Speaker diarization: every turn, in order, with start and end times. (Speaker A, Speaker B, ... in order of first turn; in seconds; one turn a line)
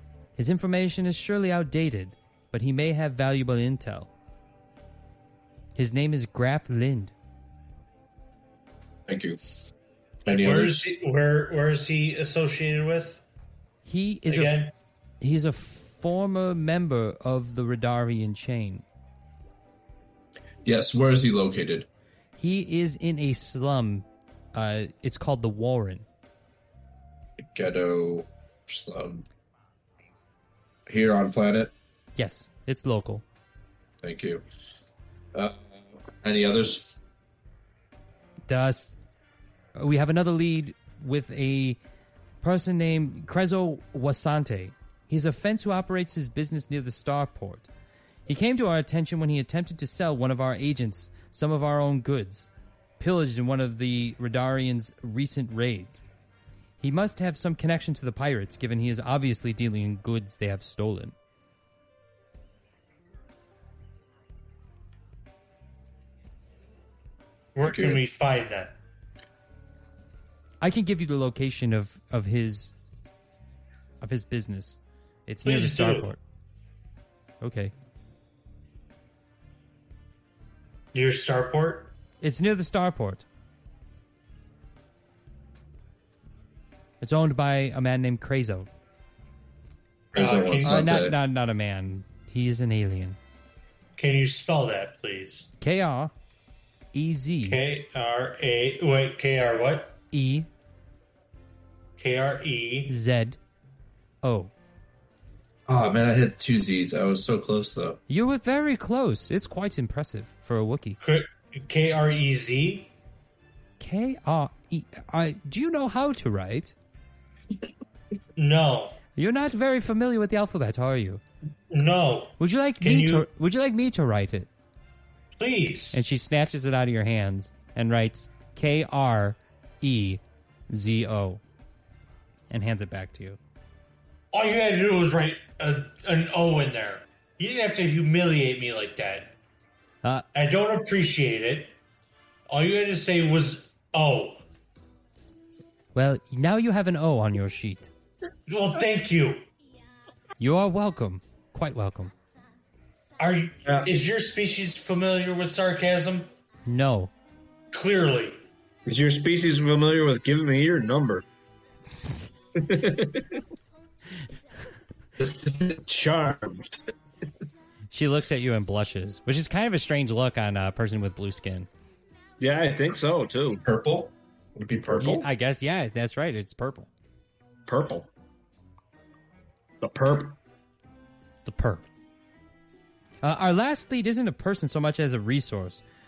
Speaker A: 0.3-4.1
Speaker A: 5.8-7.1
Speaker B: 9.1-9.4
Speaker B: 10.2-10.8
Speaker C: 10.3-13.2
Speaker A: 13.8-14.7
Speaker C: 14.3-14.7
Speaker A: 15.2-18.8
Speaker B: 20.6-21.9
Speaker A: 22.4-26.1
Speaker B: 27.4-29.2
Speaker B: 30.9-31.7
Speaker A: 32.1-33.2
Speaker B: 34.0-34.4
Speaker B: 35.3-37.0
Speaker A: 38.5-39.0
Speaker A: 39.8-41.8
Speaker A: 42.4-47.7
Speaker A: 48.3-52.5
Speaker A: 53.0-56.0
Speaker A: 56.8-61.1
Speaker C: 67.5-68.7
Speaker B: 67.6-68.0
Speaker A: 70.6-72.7
Speaker A: 74.0-76.2
Speaker C: 75.4-76.1
Speaker A: 77.4-77.7
Speaker C: 80.9-81.9
Speaker A: 82.2-83.2
Speaker A: 87.0-88.7
Speaker B: 90.1-91.2
Speaker C: 90.1-90.8
Speaker A: 90.6-93.2
Speaker C: 94.0-95.5
Speaker A: 95.6-96.1
Speaker A: 96.9-97.6
Speaker C: 97.4-100.0
Speaker A: 100.1-100.5
Speaker C: 102.0-102.9
Speaker A: 102.9-103.4
Speaker A: 104.2-104.5
Speaker B: 105.7-108.0
Speaker A: 108.1-111.0
Speaker C: 111.0-112.9
Speaker A: 113.8-116.8
Speaker C: 118.3-119.0
Speaker A: 119.1-121.2
Speaker C: 121.7-123.3
Speaker A: 122.4-124.5
Speaker C: 125.4-126.0
Speaker A: 125.9-131.4
Speaker A: 132.5-133.4
Speaker C: 134.3-139.3
Speaker C: 140.3-141.7
Speaker C: 142.5-144.4
Speaker A: 145.9-147.9
Speaker C: 148.5-149.4
Speaker A: 150.4-152.1
Speaker C: 153.2-156.3
Speaker A: 156.7-157.1
Speaker C: 157.7-158.4
Speaker D: 158.8-161.2
Speaker D: 162.6-163.4
Speaker D: 165.2-166.8
Speaker A: 167.9-171.7
Speaker D: 172.4-173.6
Speaker B: 173.6-175.2
Speaker D: 174.9-175.2
Speaker A: 175.0-176.9
Speaker D: 177.7-178.1
Speaker D: 179.8-180.4
Speaker A: 181.4-181.9
Speaker A: 183.2-185.8